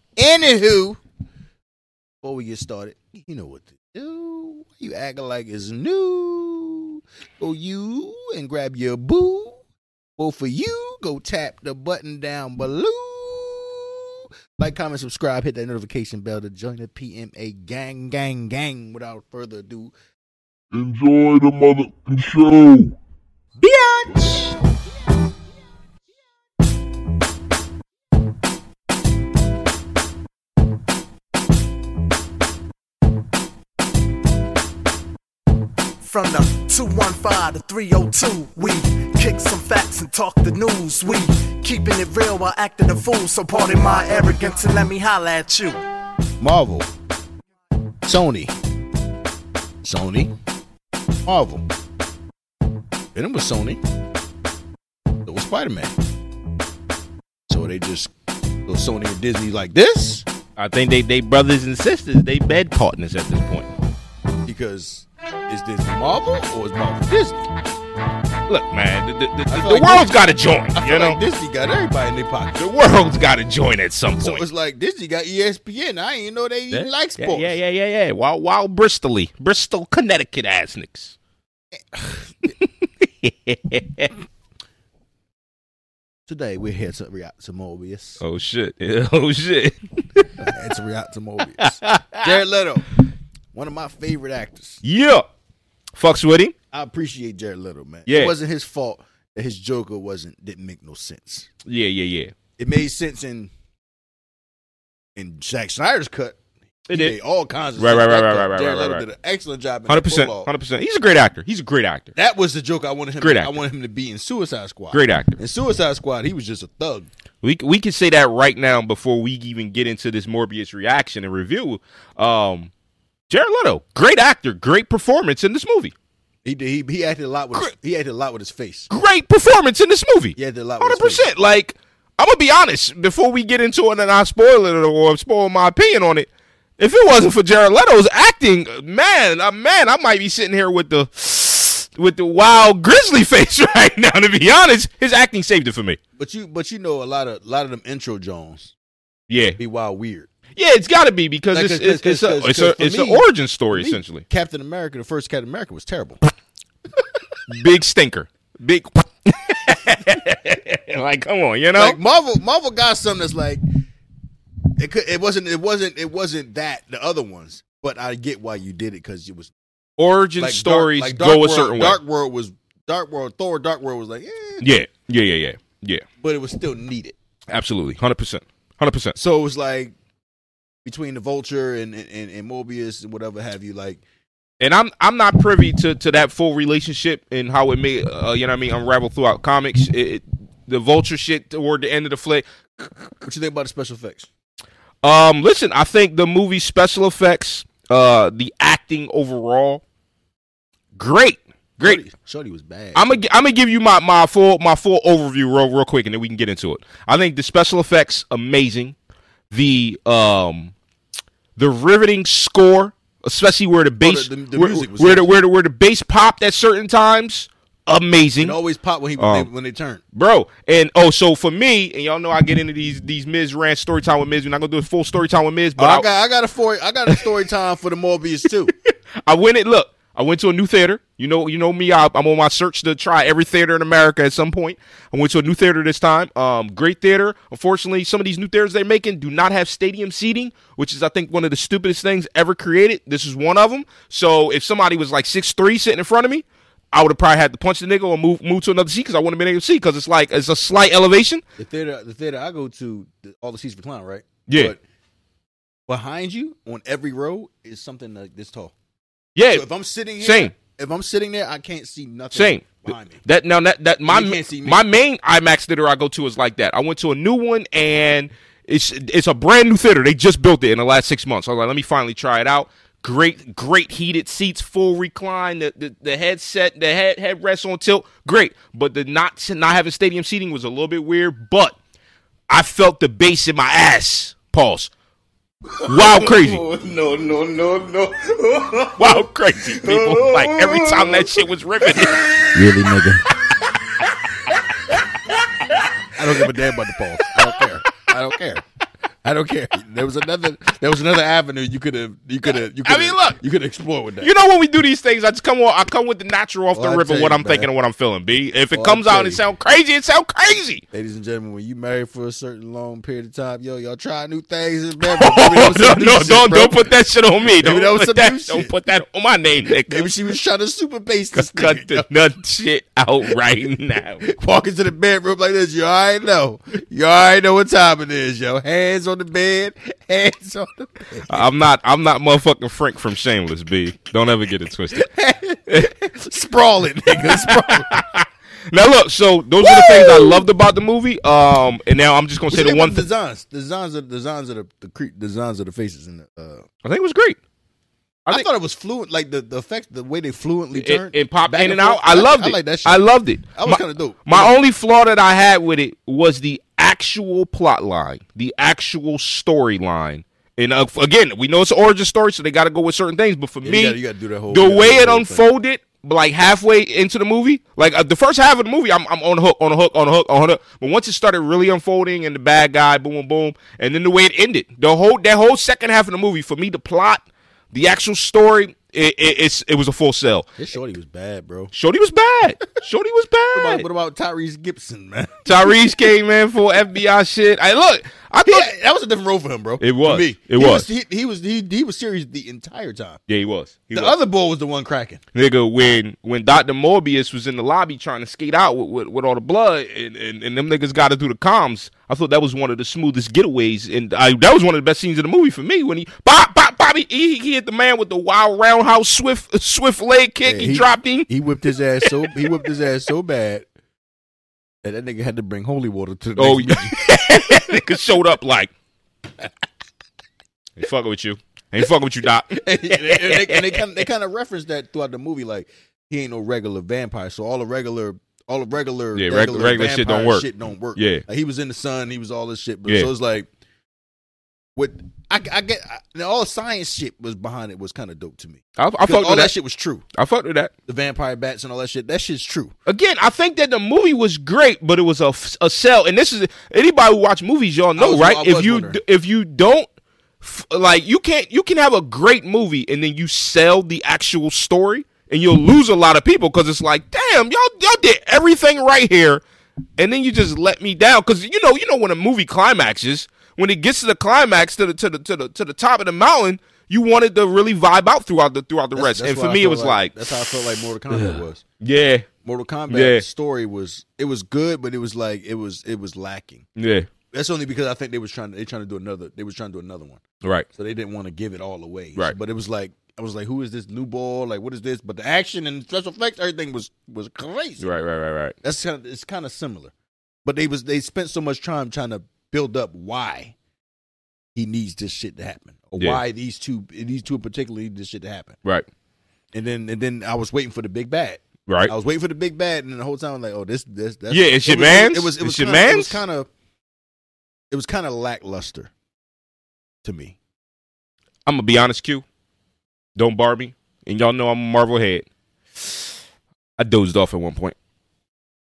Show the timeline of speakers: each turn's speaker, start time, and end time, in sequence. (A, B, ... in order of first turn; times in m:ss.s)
0:00.2-0:01.0 A
0:02.2-0:09.6 A
0:10.2-0:19.9 A
0:20.7-0:22.9 B
0:23.6-0:24.2 C
0:36.0-0:45.8 D
0:46.4-0:46.9 A
0:48.0-0:48.5 A
0:49.8-0:50.3 A
0:51.2-0:51.6 A
0:53.1-0:53.8 A
0:55.2-0:55.9 A
0:57.5-0:58.1 A
0:58.6-1:00.2 A
1:00.6-1:03.7 C
1:04.4-1:07.5 A
1:08.5-1:11.2 C
1:09.5-1:10.2 A
1:10.7-1:12.6 A
1:12.5-1:14.4 C
1:14.2-1:17.6 A
1:16.7-1:21.1 C
1:22.4-1:24.1 C
1:26.3-1:28.2 A
1:28.2-1:30.5 C
1:30.4-1:32.9 A
1:31.6-1:32.4 C
1:33.5-1:34.8 A
1:34.8-1:35.2 C
1:36.0-1:36.5 C
1:36.7-1:41.5 A
1:38.0-1:38.3 C
1:41.6-1:42.3 C
1:42.6-1:43.5 A
1:45.2-1:46.4 A
1:46.9-1:47.2 C
1:46.9-1:50.5 A
1:47.8-1:49.0 C
1:49.9-1:52.1 C
1:52.1-1:57.1 A
1:53.2-1:53.6 C
1:54.9-1:55.4 C
1:57.4-2:02.7 C
2:03.3-2:05.9 C
2:06.4-2:08.9 A
2:08.9-2:16.3 C
2:10.4-2:11.3 A
2:16.8-2:26.0 C
2:26.2-2:28.7 A
2:29.3-2:29.6 C
2:29.6-2:30.3 A
2:30.6-2:34.2 C
2:31.5-2:36.2 A
2:37.5-2:42.0 C
2:41.7-2:43.6 A
2:44.8-2:49.5 A
2:50.0-2:52.0 C
2:50.4-2:54.6 A
2:54.6-2:56.0 C
2:56.2-2:57.2 A
2:57.5-2:59.2 C
2:59.2-2:59.9 A
3:00.8-3:04.0 A
3:04.6-3:12.4 C
3:13.2-3:14.3 A
3:15.0-3:19.8 C
3:21.0-3:22.0 C
3:21.8-3:23.2 A
3:22.9-3:28.9 C
3:29.5-3:30.7 C
3:31.6-3:38.6 C
3:34.0-3:35.3 A
3:38.4-3:40.0 A
3:39.2-3:39.5 C
3:40.1-3:46.1 C
3:45.8-3:48.7 A
3:48.7-4:11.4 C
4:11.6-4:14.8 A
4:14.5-4:14.7 C
4:15.9-4:18.7 A
4:19.4-4:19.6 C
4:19.5-4:23.2 A
4:20.2-4:20.5 C
4:22.3-4:41.8 C
4:24.1-4:24.8 A
4:42.5-4:44.9 C
4:45.9-4:46.6 C
4:45.9-4:48.9 E
4:49.0-4:52.3 C
4:50.0-4:50.4 E
4:52.5-4:53.3 A
4:56.1-4:58.6 A
4:59.2-5:04.3 A
5:02.6-5:03.4 C
5:04.2-5:10.8 C
5:06.7-5:07.7 A
5:08.7-5:09.4 A
5:10.9-5:16.9 A
5:15.0-5:20.1 C
5:17.6-5:18.7 A
5:19.9-5:22.0 A
5:21.3-5:24.2 C
5:24.2-5:31.4 A
5:31.3-5:35.1 C
5:34.9-5:37.9 A
5:37.2-5:43.0 C
5:39.6-5:40.4 A
5:42.5-5:46.6 A
5:46.8-5:47.4 C
5:48.3-5:54.6 A
5:50.7-6:04.0 C
6:03.6-6:05.5 A
6:04.5-6:20.5 C
6:20.6-6:21.7 A
6:21.7-6:23.8 C
6:23.5-6:25.8 A
6:25.4-6:28.7 C
6:28.4-6:33.2 A
6:29.8-6:30.9 C
6:33.3-6:34.1 C
6:33.9-6:35.2 A
6:35.3-6:51.3 C
6:50.4-6:53.6 A
6:52.0-6:52.7 C
6:54.8-6:56.9 A
6:56.4-6:58.7 C
7:00.8-7:04.0 C
7:02.5-7:13.5 A
7:09.1-7:11.2 C
7:14.8-7:20.0 A
7:18.8-7:19.5 C
7:20.1-7:20.7 C
7:20.9-7:22.7 A
7:22.8-7:29.9 C
7:28.0-7:29.0 A
7:30.4-7:39.4 C
7:40.0-7:52.2 C
7:48.9-7:51.6 A
7:52.4-7:56.6 A
7:52.9-7:53.2 C
7:56.8-7:57.1 C
7:57.3-8:00.2 A
8:00.7-8:07.9 A
8:07.8-8:08.5 C
8:08.6-8:09.9 A
8:10.4-8:13.5 A
8:14.5-8:18.6 A
8:19.5-8:26.5 A
8:21.7-8:21.9 C
8:24.3-8:26.2 C
8:27.7-8:28.9 A
8:30.0-8:30.4 A
8:31.4-8:32.2 C
8:33.2-8:36.0 C
8:36.8-8:37.8 C